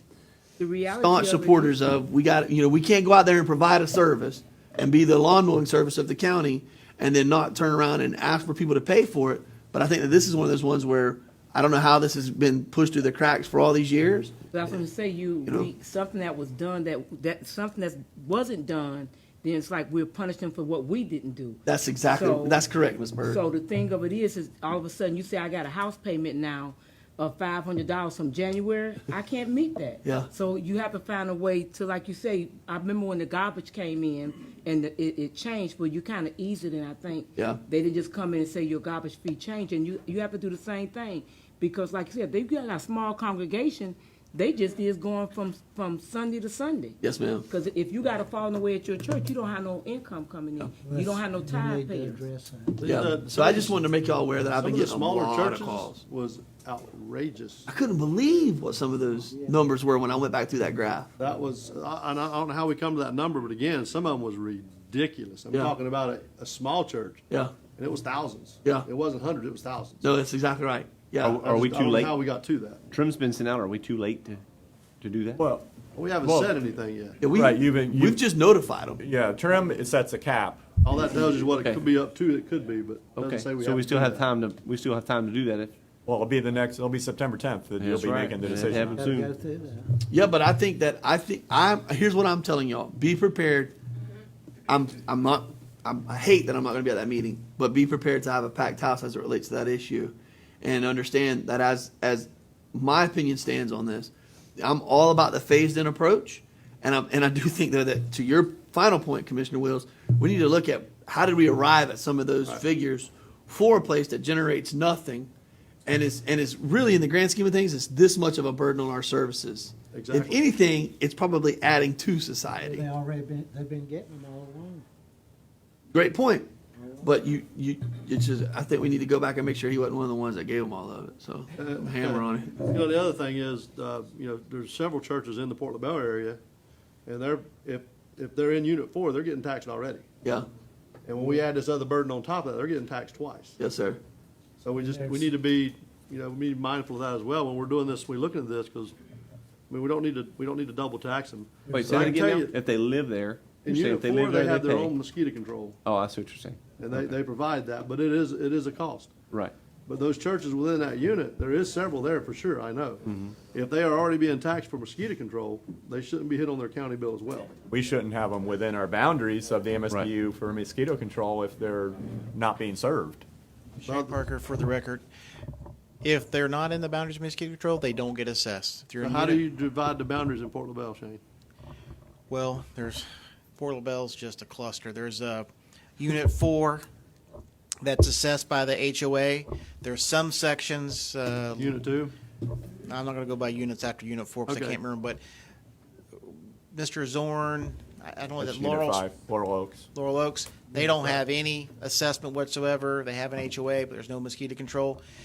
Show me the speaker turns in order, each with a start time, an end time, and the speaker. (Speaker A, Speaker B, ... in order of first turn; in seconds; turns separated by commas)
Speaker A: 0.6-1.8, Speaker B: 1.0-14.3, Speaker A: 14.5-22.6, Speaker B: 21.6-23.4, Speaker A: 23.2-47.0, Speaker B: 30.0-30.3, Speaker B: 47.0-47.4, Speaker A: 47.5-52.2, Speaker C: 51.5-52.5, Speaker D: 52.4-52.8, Speaker E: 52.8-53.8, Speaker B: 52.8-55.9, Speaker E: 54.5-57.7, Speaker B: 57.7-61.1, Speaker E: 61.2-67.2, Speaker E: 67.7-70.0, Speaker B: 70.0-71.4, Speaker D: 71.2-72.2, Speaker E: 71.4-72.8, Speaker D: 72.9-74.4, Speaker D: 75.0-75.4, Speaker F: 75.4-75.7, Speaker E: 75.9-77.2, Speaker F: 76.2-76.5, Speaker B: 77.2-79.0, Speaker F: 77.2-78.2, Speaker F: 79.0-80.6, Speaker E: 80.8-84.2, Speaker D: 83.2-85.7, Speaker F: 86.0-89.0, Speaker D: 87.8-89.9, Speaker B: 90.1-93.7, Speaker B: 94.7-115.3, Speaker B: 115.8-122.9, Speaker E: 119.9-120.4, Speaker C: 122.7-124.8, Speaker B: 125.9-126.5, Speaker B: 127.0-132.6, Speaker E: 131.6-136.4, Speaker E: 137.1-140.0, Speaker E: 141.1-143.6, Speaker B: 143.6-144.0, Speaker E: 144.6-148.9, Speaker E: 149.7-152.5, Speaker D: 151.7-154.9, Speaker E: 153.6-155.8, Speaker D: 155.8-157.1, Speaker E: 156.8-159.1, Speaker E: 159.9-167.5, Speaker F: 167.7-173.2, Speaker G: 173.8-175.0, Speaker E: 173.8-174.2, Speaker G: 176.0-179.4, Speaker E: 179.0-181.2, Speaker G: 182.3-183.0, Speaker G: 183.6-185.4, Speaker G: 186.0-186.8, Speaker G: 187.8-191.8, Speaker E: 191.6-192.1, Speaker G: 192.8-195.2, Speaker E: 194.5-194.8, Speaker G: 196.7-199.0, Speaker F: 198.4-199.9, Speaker G: 199.9-205.0